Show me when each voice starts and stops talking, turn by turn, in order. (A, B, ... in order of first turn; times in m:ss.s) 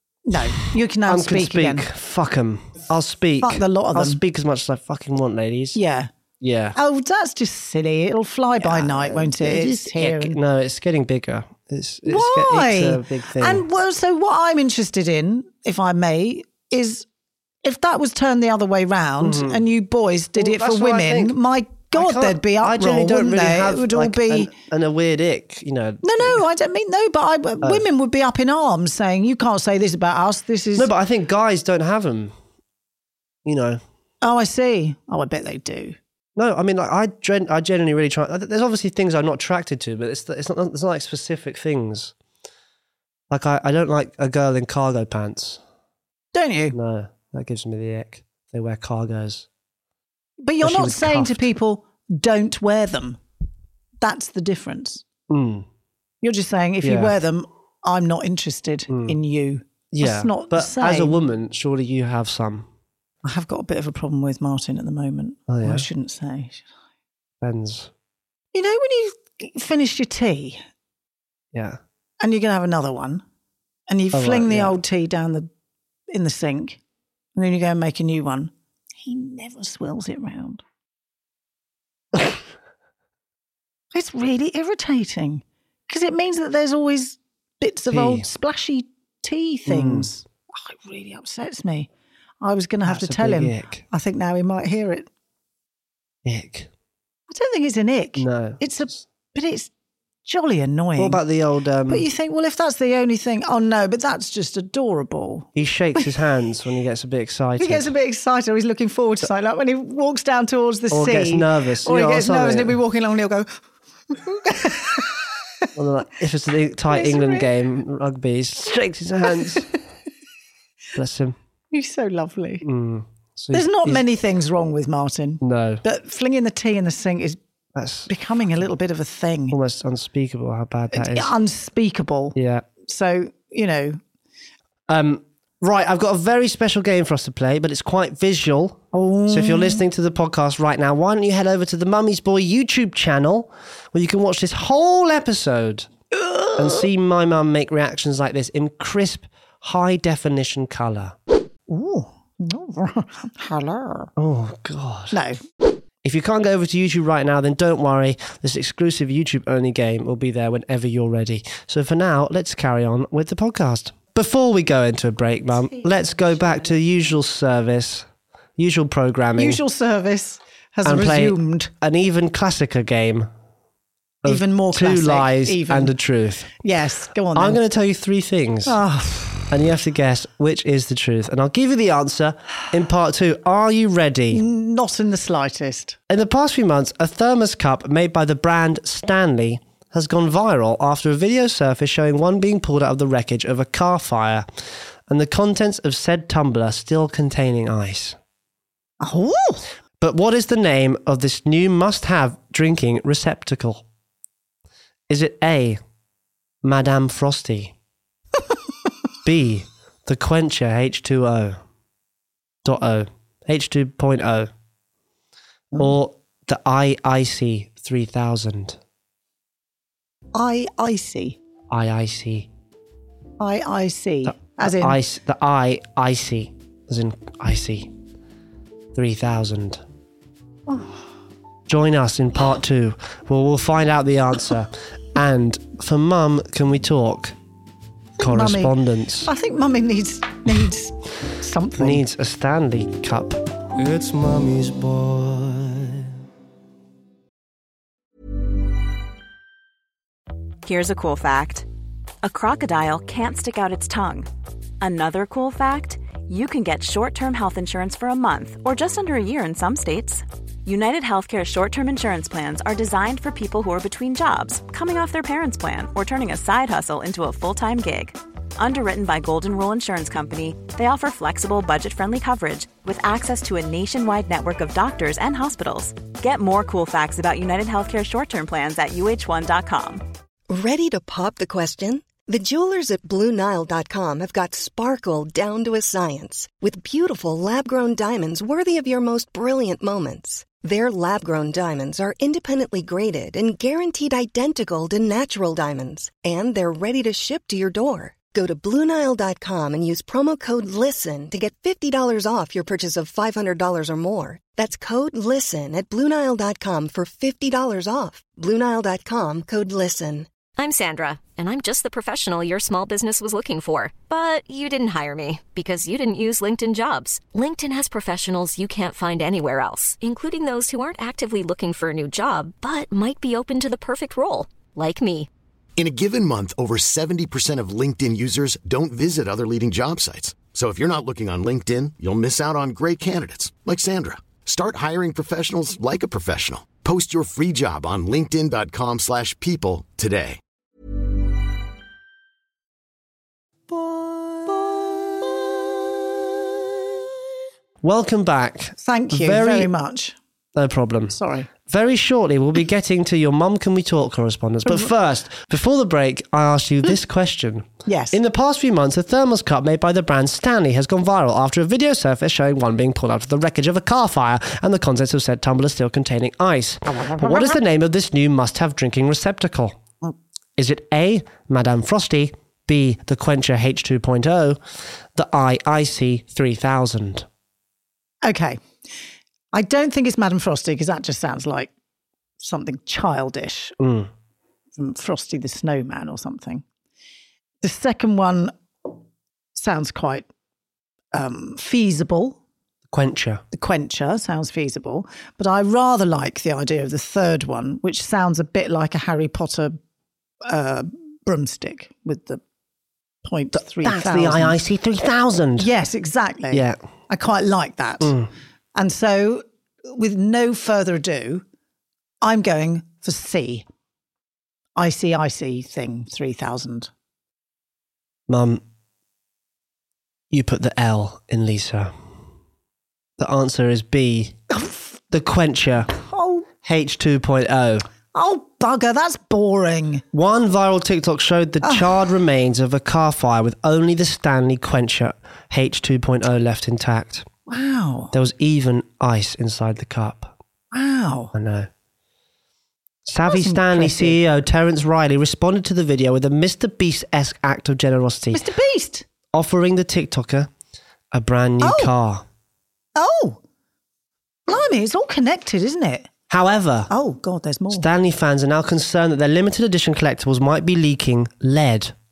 0:00.3-0:01.9 A
0:01.1-0:05.8 B
0:03.4-0:04.2 A
0:05.8-0:06.1 A
0:06.4-0:06.8 B
0:06.8-0:10.4 A
0:08.6-0:13.6 B
0:12.0-0:17.1 A
0:17.6-0:24.5 A
0:19.2-0:19.6 B
0:20.4-0:21.4 B
0:21.9-0:26.4 B
0:26.0-0:30.9 A
0:30.8-0:32.3 B
0:33.4-0:33.8 B
0:34.2-0:36.0 A
0:36.4-0:42.1 B
0:43.3-0:45.6 B
0:46.3-0:46.8 A
0:46.7-0:49.5 B
0:50.4-0:53.2 A
0:50.6-0:51.5 B
0:54.0-0:55.0 A
0:55.3-0:55.7 B
0:56.2-1:01.2 A
0:56.8-0:57.2 B
0:58.9-0:59.2 B
0:59.9-1:02.7 B
1:03.2-1:06.6 A
1:05.5-1:05.9 B
1:07.4-1:07.9 B
1:08.5-1:10.6 A
1:11.5-1:11.8 B
1:12.2-1:13.2 A
1:13.9-1:15.5 A
1:14.1-1:14.8 B
1:16.1-1:16.8 A
1:17.4-1:20.6 A
1:23.9-1:31.9 A
1:27.9-1:28.3 B
1:29.7-1:30.1 B
1:32.4-1:35.1 A
1:32.8-1:33.8 B
1:36.2-1:36.7 B
1:37.3-1:39.7 A
1:38.2-1:39.1 B
1:40.2-1:41.2 A
1:41.0-1:42.1 B
1:41.9-1:46.1 A
1:45.6-1:47.9 B
1:47.6-1:53.5 A
1:50.9-1:52.8 B
1:54.1-1:55.7 A
1:55.8-1:59.7 B
1:56.9-1:57.5 A
1:59.3-1:59.7 A
2:01.0-2:01.4 B
2:01.7-2:02.6 A
2:02.6-2:04.0 B
2:03.5-2:07.4 A
2:05.4-2:05.8 B
2:07.8-2:08.1 B
2:08.1-2:09.6 A
2:09.5-2:11.3 B
2:10.9-2:14.0 A
2:12.4-2:12.7 B
2:14.9-2:25.9 B
2:18.9-2:19.8 A
2:26.1-2:26.9 A
2:26.6-2:31.2 B
2:31.7-2:34.1 A
2:34.2-2:35.2 B
2:35.1-2:35.4 A
2:36.0-2:49.6 B
2:45.6-2:46.8 A
2:49.4-2:51.7 A
2:50.8-2:53.3 B
2:54.2-2:56.6 B
2:54.2-2:55.9 A
2:56.6-2:57.6 A
2:57.3-2:58.8 B
2:58.7-2:59.5 A
2:59.5-3:04.4 B
3:04.3-3:06.0 A
3:06.1-3:14.5 B
3:15.1-3:18.2 B
3:19.0-3:19.7 A
3:20.0-3:23.8 B
3:25.1-3:25.8 B
3:26.6-3:27.7 B
3:29.2-3:31.6 B
3:32.6-3:34.5 B
3:35.8-3:38.8 B
3:40.3-3:41.4 A
3:41.7-3:42.5 B
3:43.4-3:45.0 A
3:44.2-3:47.9 B
3:48.9-3:49.8 B
3:50.7-3:51.0 A
3:51.7-3:57.4 B
3:58.2-3:59.3 B
3:58.2-4:02.0 A
4:01.8-4:05.9 B
4:10.6-4:11.7 C
4:12.2-4:14.3 C
4:14.8-4:40.0 C
4:40.5-5:10.3 D
5:10.6-5:25.3 E
5:25.8-5:40.4 F
5:43.7-5:45.4 A
5:47.8-5:49.7 B
5:48.8-5:50.2 A
5:50.6-6:09.8 B
5:51.1-5:51.5 A
5:54.7-5:54.9 A
5:57.9-5:58.2 A
6:06.9-6:07.6 A
6:10.6-6:14.6 B
6:15.1-6:17.3 B
6:18.2-6:18.6 A
6:19.5-6:21.7 A
6:22.4-6:23.8 A
6:23.8-6:24.1 B
6:24.8-6:26.6 A
6:27.6-6:28.5 A
6:29.6-6:30.3 A
6:31.1-6:32.4 A
6:32.9-6:33.4 B
6:33.5-6:39.8 A
6:40.4-6:42.4 A
6:43.2-6:44.6 A
6:43.5-6:45.7 B
6:45.6-6:48.2 A
6:46.5-6:46.8 B
6:48.0-6:48.3 B
6:48.8-6:51.4 A
6:52.2-6:53.7 A
6:54.8-6:56.9 A
6:58.3-6:58.6 B
7:00.3-7:01.9 B
7:03.2-7:04.4 B
7:04.5-7:04.9 A
7:05.1-7:05.9 B
7:05.9-7:06.5 A
7:06.6-7:07.9 B
7:08.1-7:10.0 A
7:10.1-7:17.3 B
7:11.6-7:11.9 A
7:17.5-7:18.1 A
7:18.1-7:20.3 B
7:20.7-7:21.3 A
7:21.3-7:21.7 B
7:23.1-7:28.4 B
7:23.3-7:24.2 A
7:28.3-7:29.1 A
7:29.3-7:30.5 B
7:31.1-7:32.2 B
7:31.6-7:31.9 A
7:33.0-7:33.4 A
7:34.5-7:36.1 A
7:36.3-7:36.9 B
7:36.9-7:37.9 A
7:37.7-7:42.0 B